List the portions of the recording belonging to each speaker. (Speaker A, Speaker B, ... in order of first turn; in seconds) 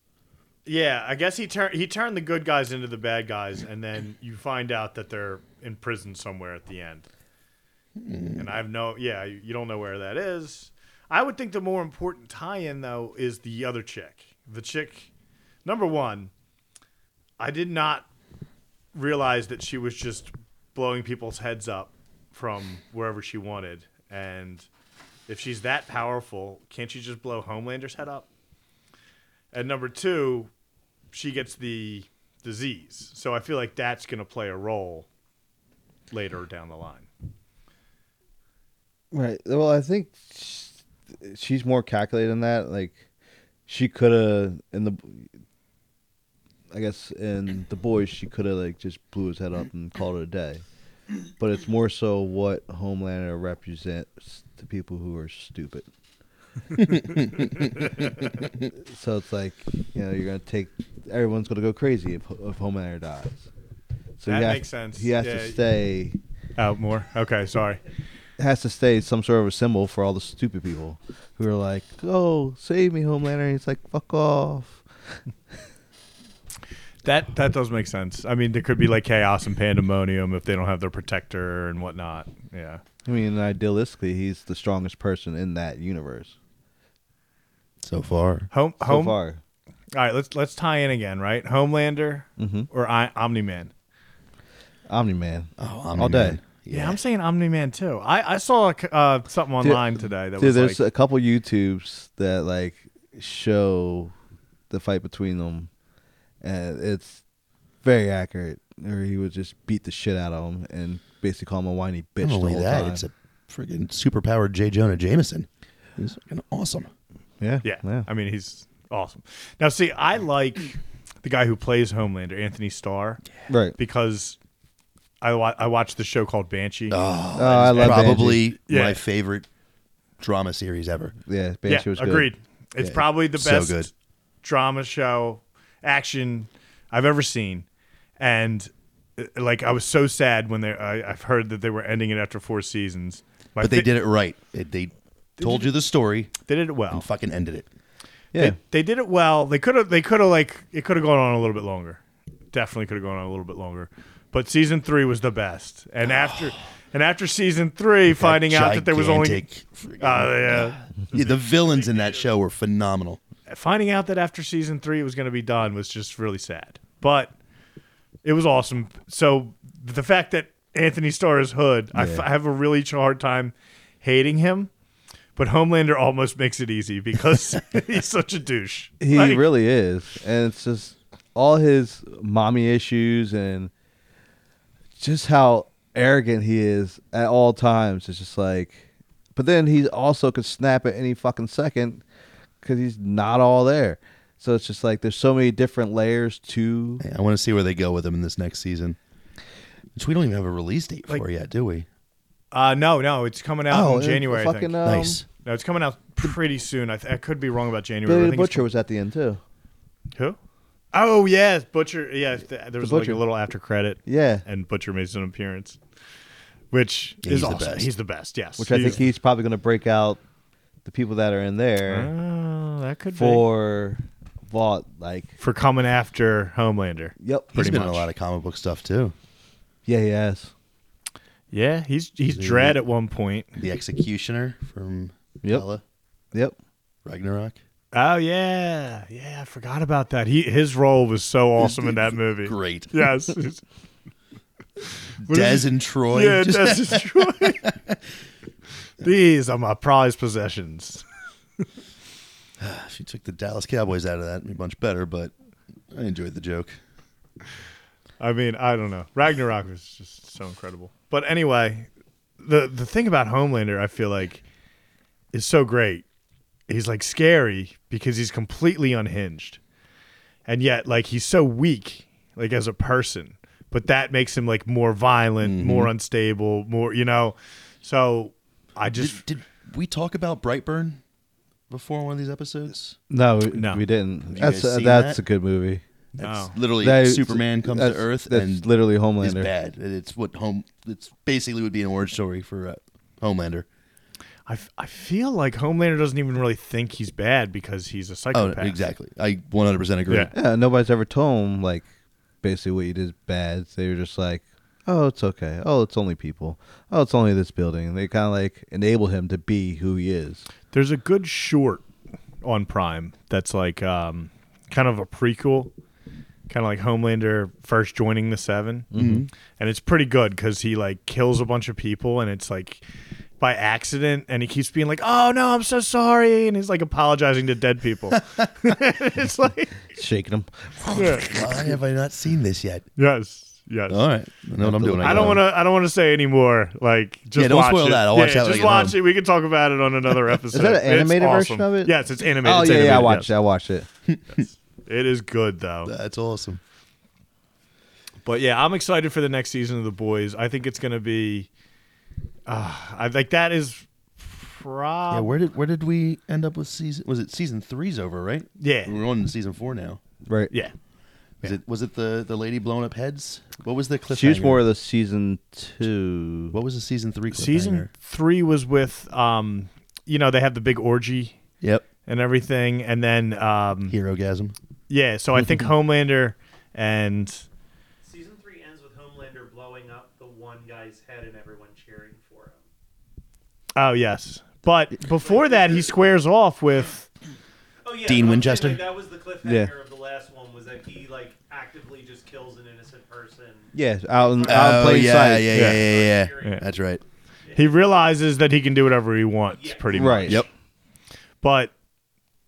Speaker A: 0.7-7.0, 8.4-15.1, 15.6-16.3, 17.4-18.1, 18.9-24.7, 25.3-28.3, 29.5-30.5, 31.1-35.1, 36.1-37.1, 64.2-65.6, 66.6-67.8, 77.0-82.8, 88.5-89.2, 89.9-93.7, 96.7-100.8, 117.6-123.2, 123.8-124.4, 125.2-129.0, 131.7-133.9, 134.4-137.7, 138.2-143.9, 146.5-147.1, 148.3-152.0, 152.5-159.4, 160.0-161.2, 163.5-167.3, 168.2-174.7, 175.4-179.5, 202.5-204.8, 205.4-208.7, 210.9-215.8, 216.7-219.0, 221.8-223.4, 225.4-228.1, 231.5-233.5, 237.9-243.6, 245.2-247.7, 249.0-251.0, 258.2-261.9, 262.4-264.4, 265.3-266.0, 266.7-269.6, 270.4-279.2, 283.5-283.8, 286.2-286.5, 294.5-298.8, 310.7-311.8, 312.4-315.7, 316.5-318.9, 319.6-322.8, 323.4-329.8, 330.9-331.3, 333.0-334.0, 335.0-343.3, 344.4-345.9, 348.2-351.5, 352.5-355.3, 358.6-359.0, 367.3-371.3, 372.1-373.9, 374.9-377.4, 383.8-387.1, 395.5-395.8, 397.5-400.4, 401.4-401.7
Speaker B: 8.0-8.4, 56.8-57.5, 87.8-88.5, 95.6-97.0, 112.2-116.9, 126.9-129.4, 130.2-131.1, 133.2-133.9, 143.6-146.3, 146.9-147.7, 156.1-156.4, 158.2-163.2, 197.0-199.0, 199.9-201.9, 204.8-205.2, 217.2-217.9, 227.5-229.1, 232.3-232.8, 233.6-235.8, 237.0-237.6, 241.6-242.9, 245.2-247.5, 252.6-255.3, 255.9-256.8, 275.4-275.9, 278.9-281.0, 281.7-282.9, 284.3-285.2, 286.1-288.7, 289.2-293.7, 298.3-300.3, 318.9-319.3, 331.1-332.9, 333.9-335.4, 337.4-339.0, 344.1-344.4, 345.9-346.6, 355.1-360.0, 361.4-364.6, 366.5-367.9, 371.6-371.9, 373.9-374.5, 388.0-388.8, 394.4-397.0
Speaker C: 39.1-43.0, 43.7-45.3, 46.7-50.6, 51.4-55.9, 58.8-63.5, 64.2-66.2, 68.4-74.8, 83.0-86.3, 88.8-89.4, 92.4-92.7, 94.9-96.4, 99.6-104.1, 104.7-105.7, 106.4-107.2, 107.8-113.0, 117.4-118.1, 123.5-123.8, 127.3-128.4, 131.2-132.3, 171.9-172.2, 179.0-183.7, 185.0-188.8, 189.3-192.0, 192.6-197.0, 203.7-205.2, 208.1-209.4, 212.8-213.2, 214.1-214.4, 218.6-220.2, 220.8-222.1, 223.2-225.3, 227.2-227.7, 229.8-230.5, 283.1-285.8, 286.8-289.5, 300.3-301.9, 302.4-310.4, 318.9-319.3, 329.9-331.3, 334.6-335.4, 340.5-343.9, 360.2-360.5, 364.1-366.6, 389.4-389.7, 393.7-395.6, 399.9-400.4
Speaker D: 161.8-162.1, 378.0-382.6, 385.2-386.0, 387.8-396.6, 397.4-397.8, 399.5-400.2